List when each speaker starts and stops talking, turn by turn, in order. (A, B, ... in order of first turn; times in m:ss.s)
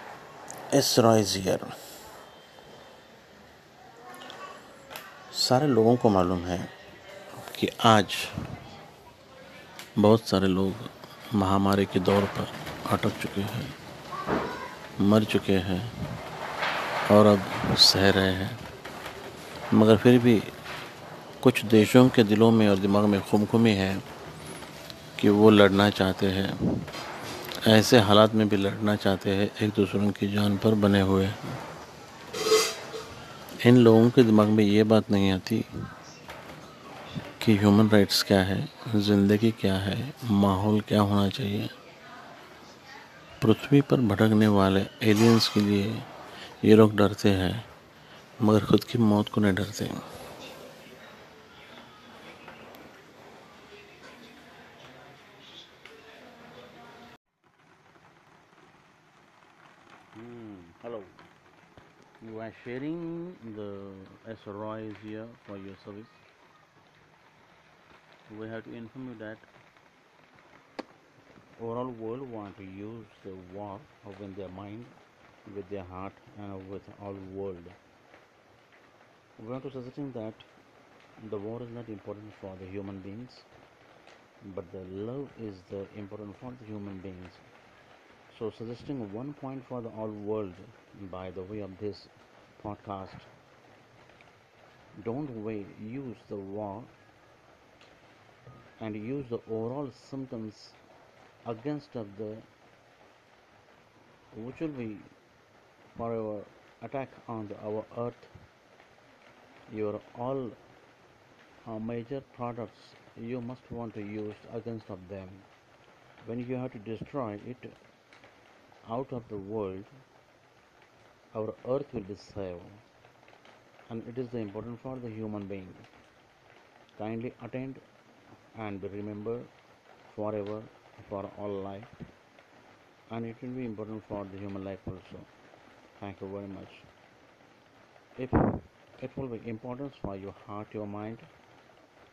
0:00.7-0:01.7 A
0:05.3-0:06.7 A
0:07.4-0:08.3 A
0:10.0-0:13.8 A
0:15.0-0:15.9 A
0:17.1-0:18.6 A
0:19.7-0:20.5 A
0:21.4-0:24.0 A
0:25.2-0:26.6 A
0:27.6-0:31.6 A
0:33.6-0:35.7 A
0:37.4-0:41.7 A
0:43.4-0:46.1 A
0:46.6-0:47.7 A
0:48.4-0:50.0 A
1:00.1-1:01.1 A
1:02.2-1:06.2 A
1:08.3-1:09.5 A
1:11.6-1:17.8 A
1:19.4-1:20.5 A
1:21.2-1:23.5 A
1:24.4-1:27.4 A
1:28.3-1:33.3 A
1:35.0-1:36.9 A
1:38.8-1:40.8 A
1:41.4-1:42.5 A
1:44.3-1:45.1 A
1:45.9-1:48.3 A
1:49.7-1:50.6 A
1:51.6-1:55.5 A
1:56.2-1:57.8 A
1:58.8-1:59.9 A
2:01.3-2:02.8 A
2:03.9-2:05.9 A
2:07.0-2:07.8 A
2:08.5-2:09.5 A
2:10.1-2:11.9 A
2:13.1-2:15.3 A
2:16.0-2:16.9 A
2:18.2-2:21.3 A